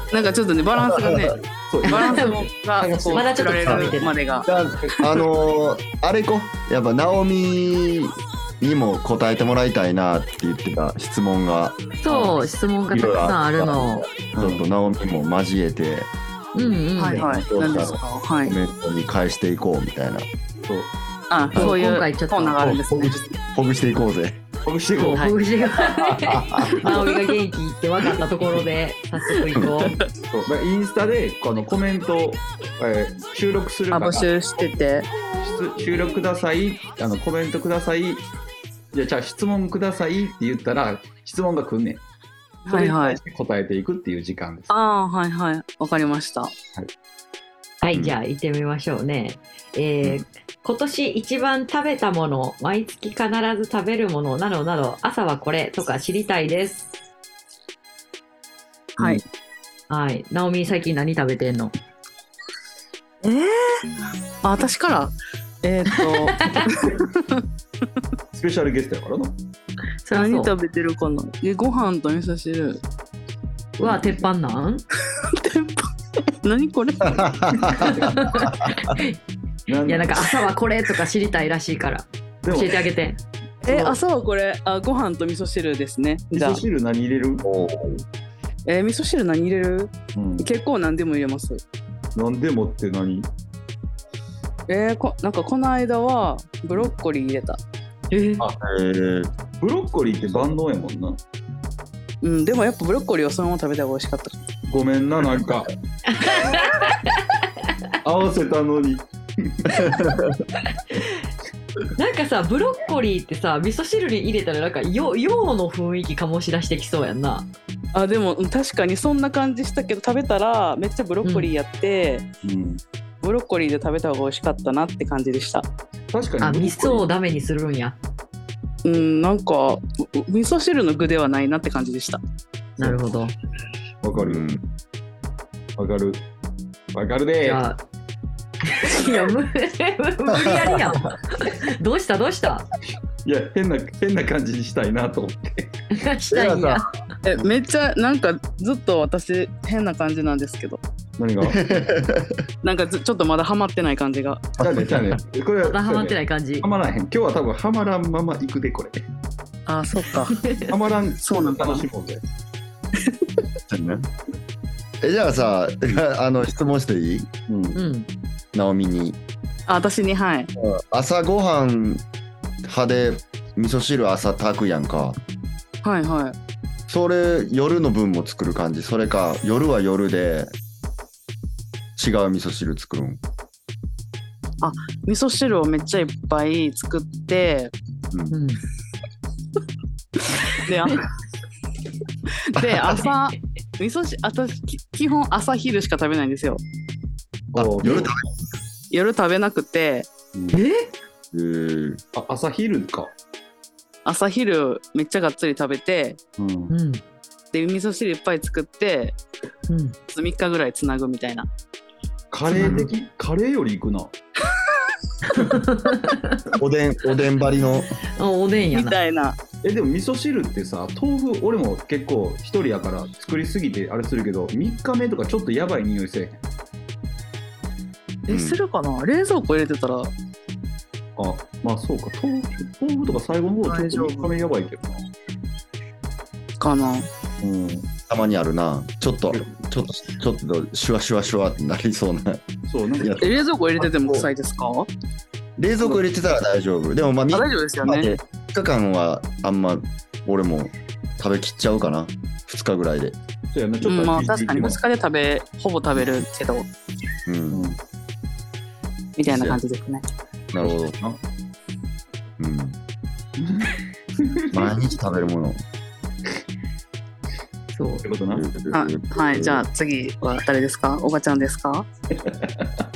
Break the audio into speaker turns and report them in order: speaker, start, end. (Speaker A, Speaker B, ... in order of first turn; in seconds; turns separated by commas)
Speaker A: 0.1-4.5, Speaker B: 0.8-1.3, Speaker C: 1.7-3.5, Speaker D: 1.8-2.5, Speaker D: 3.1-4.1, Speaker B: 3.6-3.9, Speaker B: 4.4-11.9, Speaker D: 12.0-14.1, Speaker B: 12.9-16.1, Speaker C: 14.3-14.6, Speaker D: 16.5-17.4, Speaker A: 17.0-18.6, Speaker B: 17.2-20.3, Speaker C: 20.7-20.9, Speaker A: 21.3-23.3, Speaker D: 21.6-22.7, Speaker B: 22.6-24.4, Speaker C: 24.6-25.9, Speaker D: 25.0-30.0, Speaker B: 26.1-26.8, Speaker A: 26.9-27.2, Speaker C: 30.3-34.7, Speaker A: 33.9-35.1, Speaker C: 35.3-38.2, Speaker C: 38.9-42.0, Speaker A: 42.6-43.2, Speaker C: 42.7-44.7, Speaker A: 44.7-46.5, Speaker D: 47.8-56.9, Speaker D: 59.9-61.7, Speaker A: 63.2-63.8, Speaker A: 64.4-67.4, Speaker D: 65.9-66.7, Speaker C: 68.3-69.3, Speaker D: 70.0-70.5, Speaker A: 70.1-72.8, Speaker D: 73.8-74.8, Speaker C: 73.8-74.1, Speaker A: 75.2-75.9, Speaker A: 76.4-77.6, Speaker B: 77.1-79.0, Speaker C: 77.7-78.1, Speaker D: 77.8-79.2, Speaker C: 79.7-80.4, Speaker D: 79.8-83.2, Speaker C: 82.4-82.8, Speaker A: 83.6-86.6, Speaker C: 83.7-84.0, Speaker C: 86.3-87.5, Speaker B: 87.4-88.0, Speaker A: 88.7-91.6, Speaker C: 90.2-90.5, Speaker C: 92.1-93.3, Speaker A: 94.7-97.6, Speaker D: 98.1-98.4, Speaker B: 98.6-99.3, Speaker C: 99.6-101.2, Speaker A: 102.2-104.4, Speaker C: 104.7-105.7, Speaker D: 106.1-107.1, Speaker C: 108.0-110.0, Speaker B: 109.8-110.3, Speaker D: 112.0-117.5, Speaker A: 117.9-122.2, Speaker D: 121.2-121.5, Speaker C: 122.4-122.8, Speaker A: 123.2-125.7, Speaker C: 126.1-127.0, Speaker D: 126.4-128.0, Speaker A: 128.8-132.2, Speaker D: 132.8-133.3, Speaker C: 134.0-134.4, Speaker B: 134.1-134.6, Speaker C: 135.8-136.2, Speaker C: 136.9-137.6, Speaker D: 137.4-137.8, Speaker D: 138.6-142.7, Speaker B: 140.3-140.8, Speaker C: 143.2-145.8, Speaker D: 145.9-146.9, Speaker B: 146.3-146.9, Speaker A: 147.2-150.8, Speaker C: 151.2-151.7, Speaker B: 151.4-152.4, Speaker A: 152.6-154.5, Speaker B: 154.6-155.2, Speaker C: 154.6-159.0, Speaker D: 155.6-156.7, Speaker A: 159.7-160.4, Speaker D: 160.3-160.7, Speaker C: 160.7-162.2, Speaker A: 161.2-161.9, Speaker B: 163.7-164.1, Speaker B: 165.0-167.3, Speaker C: 167.5-167.8, Speaker D: 167.7-168.1, Speaker B: 168.5-169.2, Speaker A: 169.7-170.5, Speaker B: 170.6-172.0, Speaker B: 172.6-175.2, Speaker A: 175.8-176.3, Speaker B: 176.9-180.5, Speaker B: 182.0-183.2, Speaker A: 184.6-187.7, Speaker D: 188.3-188.6, Speaker A: 190.5-191.0, Speaker A: 192.5-196.6, Speaker B: 192.5-193.0, Speaker C: 197.5-198.1, Speaker B: 197.5-198.2, Speaker A: 198.9-200.1, Speaker C: 200.3-200.6, Speaker D: 200.5-200.9, Speaker B: 201.3-202.0, Speaker C: 202.1-203.1, Speaker A: 204.0-206.2, Speaker C: 206.4-206.7, Speaker D: 206.7-207.0, Speaker A: 207.5-209.2, Speaker D: 209.7-209.9, Speaker A: 210.1-211.5, Speaker C: 212.3-214.1, Speaker D: 212.5-212.8, Speaker B: 212.5-212.9, Speaker D: 215.3-216.4, Speaker B: 216.5-217.9, Speaker D: 218.2-218.9, Speaker A: 218.7-219.4, Speaker C: 219.6-226.4, Speaker A: 228.3-230.1, Speaker B: 228.3-228.6, Speaker C: 231.2-235.0, Speaker A: 233.6-234.3, Speaker A: 236.6-237.1, Speaker C: 237.4-237.9, Speaker B: 238.1-242.4, Speaker C: 242.7-243.2, Speaker B: 243.0-244.3, Speaker A: 243.2-244.9, Speaker B: 245.6-253.2, Speaker A: 247.3-248.1, Speaker C: 253.5-254.8, Speaker A: 253.8-256.7, Speaker B: 257.3-257.7, Speaker C: 257.5-257.8, Speaker A: 259.2-260.1, Speaker B: 259.3-259.6, Speaker B: 260.5-261.2, Speaker B: 262.4-262.8, Speaker C: 263.4-264.7, Speaker B: 264.5-265.6, Speaker D: 267.7-268.1, Speaker C: 268.0-268.4, Speaker B: 268.3-269.6, Speaker A: 268.7-271.9, Speaker C: 272.1-272.9